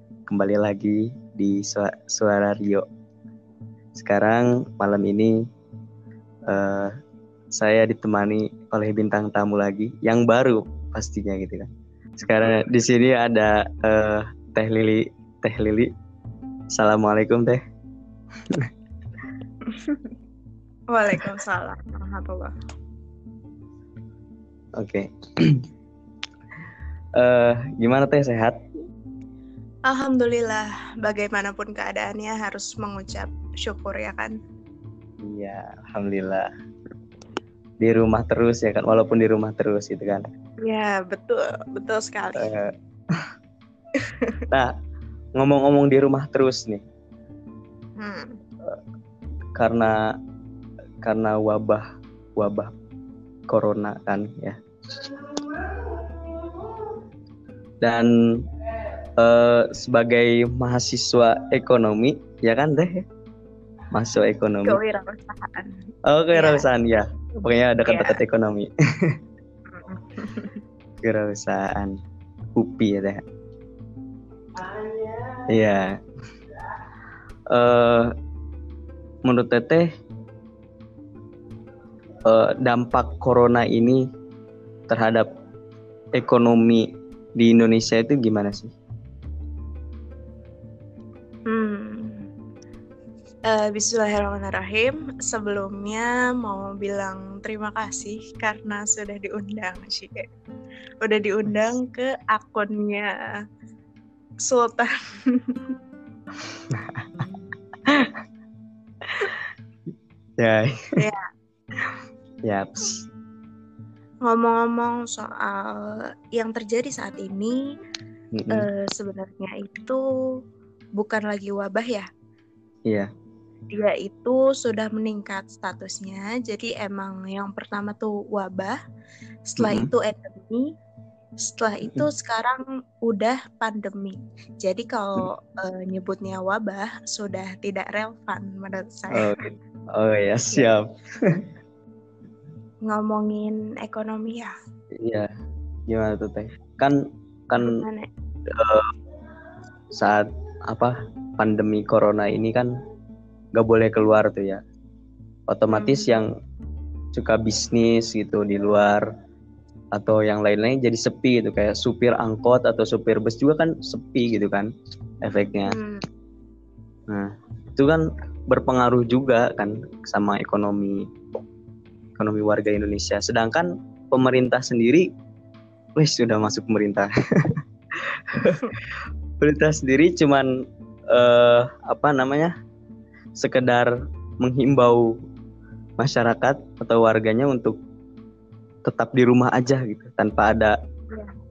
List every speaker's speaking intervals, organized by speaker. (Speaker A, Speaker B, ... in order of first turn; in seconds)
Speaker A: 0.3-2.8, 3.9-5.4, 6.5-6.9, 7.5-11.7, 12.2-15.9, 16.7-17.6, 24.8-25.6, 27.2-28.6, 35.2-36.5, 37.8-40.2, 42.4-43.2, 45.4-46.8, 49.5-50.0, 51.0-52.7, 53.5-54.6, 57.8-58.1, 59.2-63.0, 63.9-64.8, 66.0-69.1, 71.0-72.0, 72.5-73.2, 75.5-76.0, 77.5-78.1, 79.2-79.9, 82.2-84.0, 84.9-85.3, 86.1-88.7, 106.7-107.2, 107.8-108.2, 109.0-109.4, 110.4-110.7, 111.8-113.0, 118.3-118.7, 129.6-129.9, 139.1-141.4, 145.0-145.3, 145.9-147.0, 147.5-147.8, 148.5-148.9, 149.9-152.7, 153.6-154.6, 155.5-156.3, 157.1-159.1, 159.9-164.7, 165.2-165.8, 167.1-171.0, 172.2-175.1, 176.0-180.5, 181.1-182.5, 183.4-183.9, 184.4-185.1, 186.0-187.7, 188.8-190.7
Speaker B: 19.7-20.1, 20.9-22.5, 29.9-34.3, 40.6-42.5, 44.0-44.4, 48.0-48.4, 64.6-65.8, 66.3-66.7, 67.8-68.2, 69.7-70.6, 91.5-92.2, 93.5-100.2, 101.0-103.1, 104.5-105.6, 111.0-111.2, 114.2-117.6, 118.5-120.0, 121.0-122.1, 123.7-128.7, 129.5-130.7, 131.4-139.3, 142.9-144.5, 147.6-148.1, 155.7-156.1, 165.7-166.0